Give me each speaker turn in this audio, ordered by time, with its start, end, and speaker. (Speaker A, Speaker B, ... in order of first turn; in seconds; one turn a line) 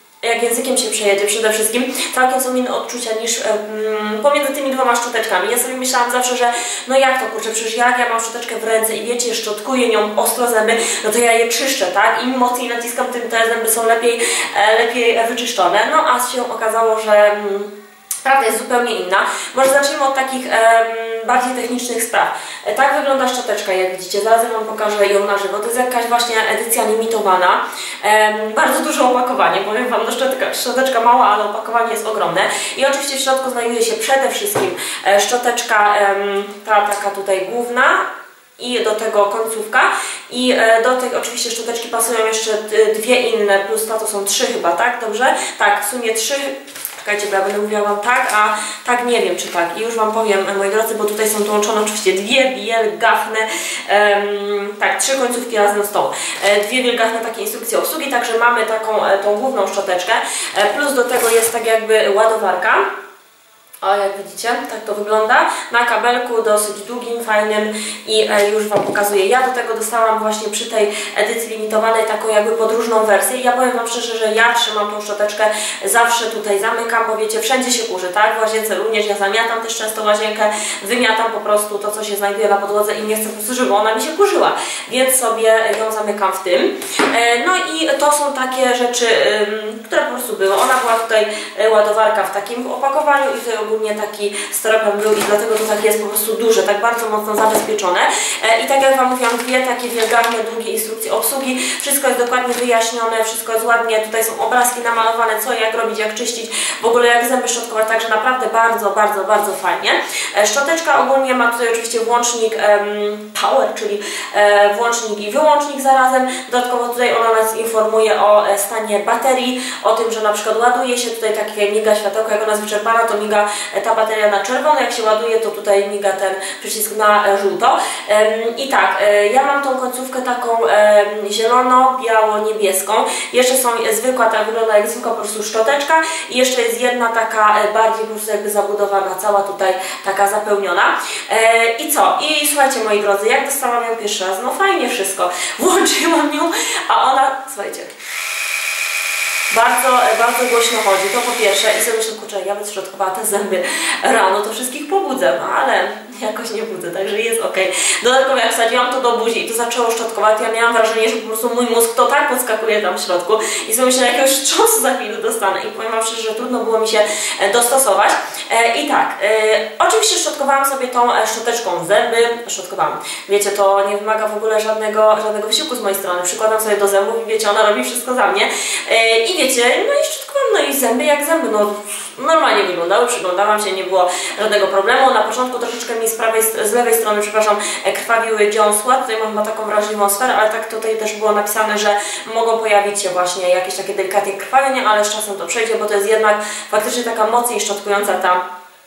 Speaker A: 0.2-38.1
Speaker A: 38.6-62.9
Speaker A: 63.8-147.9
Speaker A: 149.5-198.4